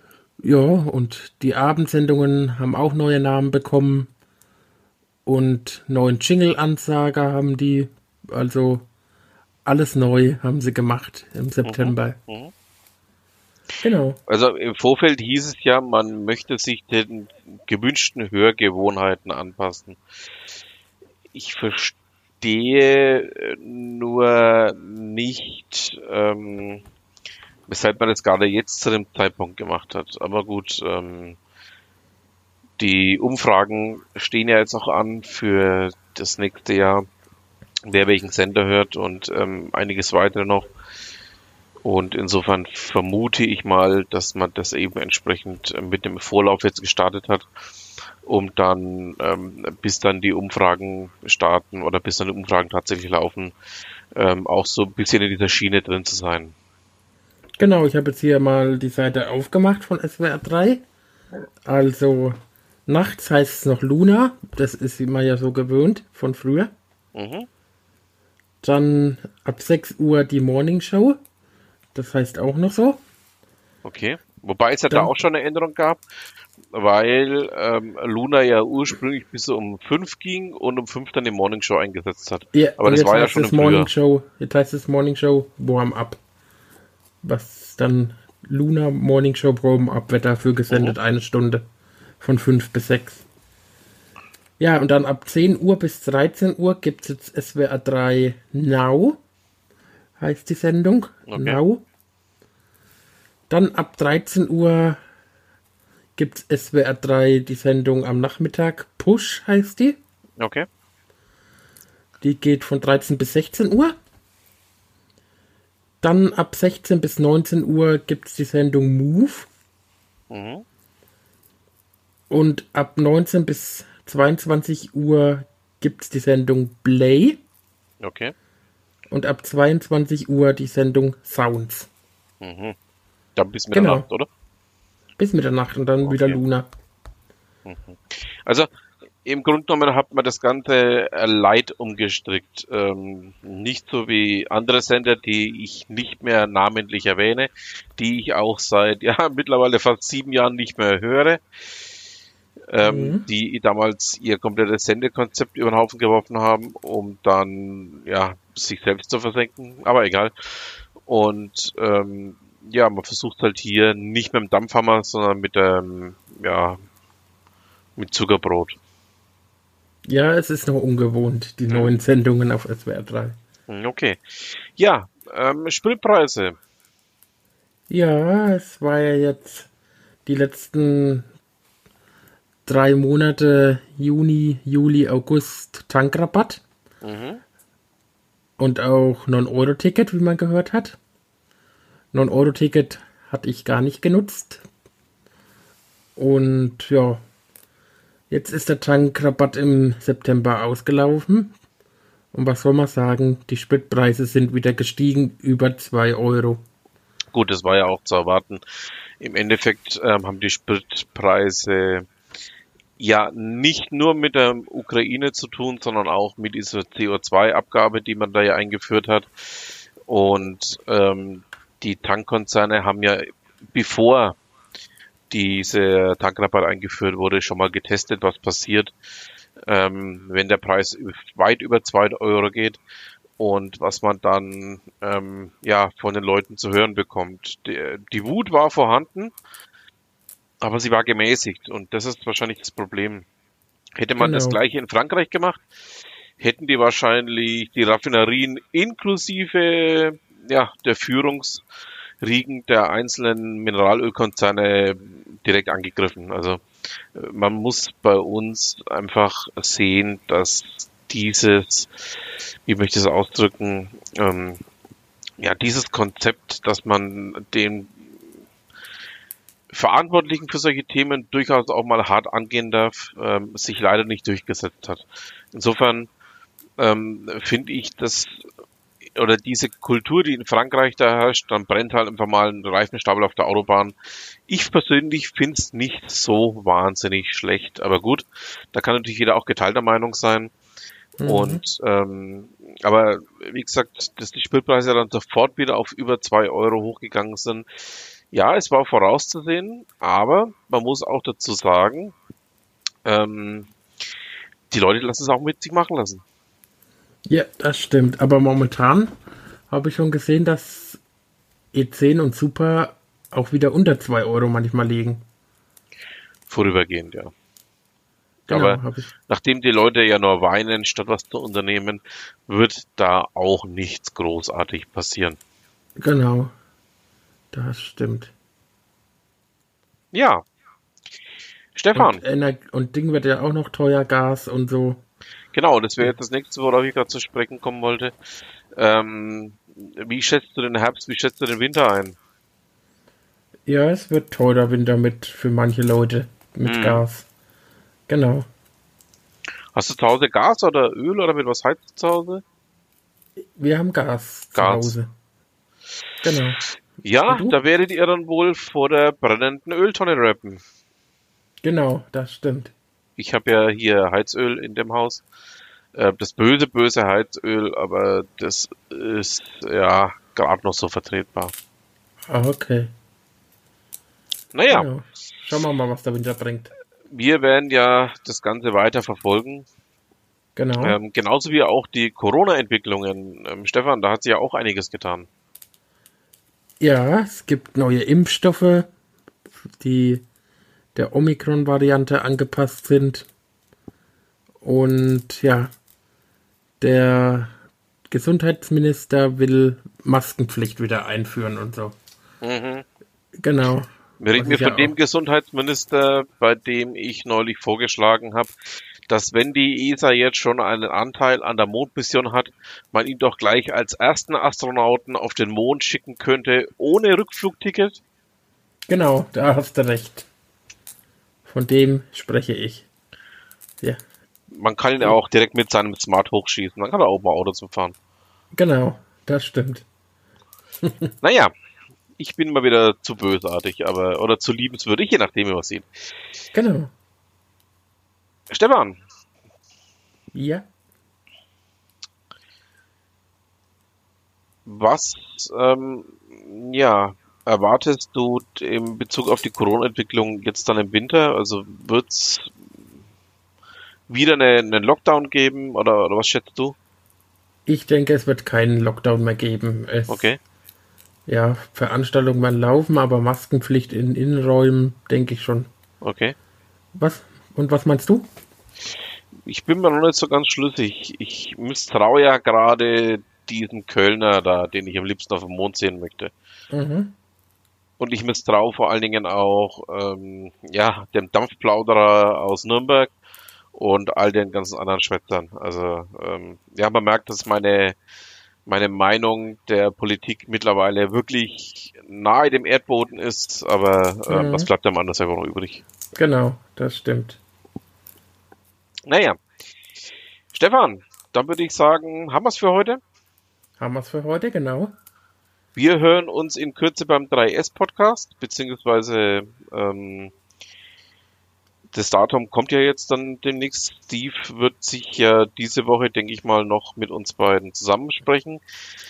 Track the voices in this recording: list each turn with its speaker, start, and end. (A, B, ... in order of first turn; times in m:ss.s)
0:00.4-0:04.1 A
0:05.2-0:08.9 A
0:09.6-0:12.2 A
0:11.6-0:12.5 B
0:13.8-0:14.2 A
0:14.3-0:20.0 B
0:21.3-0:26.8 B
0:27.7-0:31.4 B
0:32.8-0:37.0 B
0:37.9-0:40.7 B
0:41.8-0:47.4 B
0:48.2-0:53.5 B
0:54.2-0:56.6 B
0:57.6-1:00.8 A
1:01.6-1:06.7 A
1:07.1-1:07.5 B
1:08.6-1:11.2 A
1:11.9-1:13.0 A
1:13.8-1:16.0 B
1:16.7-1:23.9 B
1:22.5-1:26.2 A
1:27.2-1:31.6 A
1:30.7-1:30.9 B
1:32.2-1:33.2 A
1:34.6-1:39.2 A
1:40.2-1:41.8 A
1:41.3-1:41.6 B
1:43.5-1:45.0 A
1:46.2-1:50.0 A
1:50.4-1:50.7 B
1:52.2-1:53.9 A
1:56.0-1:59.5 A
2:00.3-2:00.6 B
2:02.3-2:07.4 A
2:08.0-2:08.3 B
2:09.1-2:11.9 A
2:12.4-2:12.8 B
2:13.4-2:14.3 B
2:13.7-2:14.0 A
2:15.2-2:16.7 A
2:16.0-2:16.4 B
2:17.6-2:18.7 B
2:19.2-2:31.4 B
2:32.7-2:46.8 B
2:32.8-2:33.2 A
2:48.0-2:48.8 B
2:50.0-2:53.4 A
2:53.7-2:56.6 B
2:57.9-2:59.7 A
3:00.2-3:01.3 A
3:02.6-3:06.6 A
3:07.0-3:07.4 B
3:08.6-3:11.0 A
3:12.1-3:14.6 A
3:16.2-3:17.2 A
3:18.3-3:21.5 A
3:22.3-3:26.6 A
3:27.3-3:28.6 B
3:29.2-3:32.1 B
3:33.0-3:39.3 B
3:40.0-3:44.4 B
3:45.3-3:48.9 B
3:49.7-3:52.8 B
3:53.4-3:59.3 B
4:00.6-4:03.3 B
4:04.0-4:05.6 B
4:04.2-4:04.6 A
4:06.4-4:11.6 B
4:12.2-4:16.6 B
4:17.1-4:21.9 B
4:22.6-4:24.6 B
4:25.4-4:28.0 B
4:29.7-4:36.1 B
4:36.8-4:38.4 B
4:39.2-4:43.9 B
4:44.5-4:50.5 B
4:51.2-4:51.6 A
4:51.2-4:57.6 B
4:58.3-5:02.1 B
5:03.0-5:03.7 B
5:04.7-5:06.2 B
5:07.3-5:09.1 A
5:09.7-5:11.0 A
5:11.7-5:15.2 A
5:16.5-5:17.3 B
5:18.5-5:25.4 B
5:18.5-5:19.1 A
5:26.0-5:26.5 A
5:27.5-5:28.3 A
5:30.1-5:30.4 B
5:31.8-5:32.2 B
5:31.9-5:35.0 A
5:35.5-5:38.1 B
5:38.8-5:42.2 B
5:43.6-5:47.3 A
5:46.6-5:47.0 B
5:48.1-5:48.4 A
5:49.7-5:52.4 B
5:53.5-5:55.1 A
5:54.5-5:54.9 B
5:56.2-5:56.6 A
5:57.0-6:00.6 B
5:57.3-5:57.6 A
6:01.6-6:02.7 A
6:03.2-6:05.2 B
6:05.9-6:11.5 B
6:12.3-6:12.9 A
6:14.5-6:14.9 B
6:14.7-6:16.7 A
6:17.1-6:19.7 B
6:20.6-6:21.0 A
6:20.8-6:25.3 B
6:26.8-6:28.9 A
6:29.8-6:30.2 A
6:30.9-6:33.3 A
6:34.6-6:35.7 A
6:36.8-6:37.5 A
6:38.1-6:42.0 A
6:42.4-6:42.8 B
6:43.4-6:44.9 A
6:44.2-6:48.5 B
6:49.1-6:58.0 B
6:58.9-7:00.3 A
7:01.4-7:02.9 A
7:04.5-7:07.9 B
7:08.5-7:09.8 A
7:10.8-7:11.1 A
7:11.2-7:11.5 B
7:12.2-7:15.9 B
7:16.5-7:16.9 A
7:18.5-7:19.0 B
7:20.3-7:20.6 A
7:24.6-7:32.5 B
7:34.1-7:36.8 B
7:37.6-7:40.3 A
7:40.1-7:40.4 B
7:41.3-7:45.7 A
7:46.0-7:46.3 B
7:46.9-7:48.3 A
7:49.4-7:56.3 B
7:56.7-7:57.1 A
7:58.0-8:03.1 B
8:03.7-8:08.0 B
8:08.6-8:15.8 B
8:14.3-8:14.7 A
8:16.2-8:17.4 A
8:19.1-8:19.4 B
8:20.5-8:23.0 B
8:23.8-8:24.9 A
8:25.7-8:30.3 B
8:31.9-8:38.6 B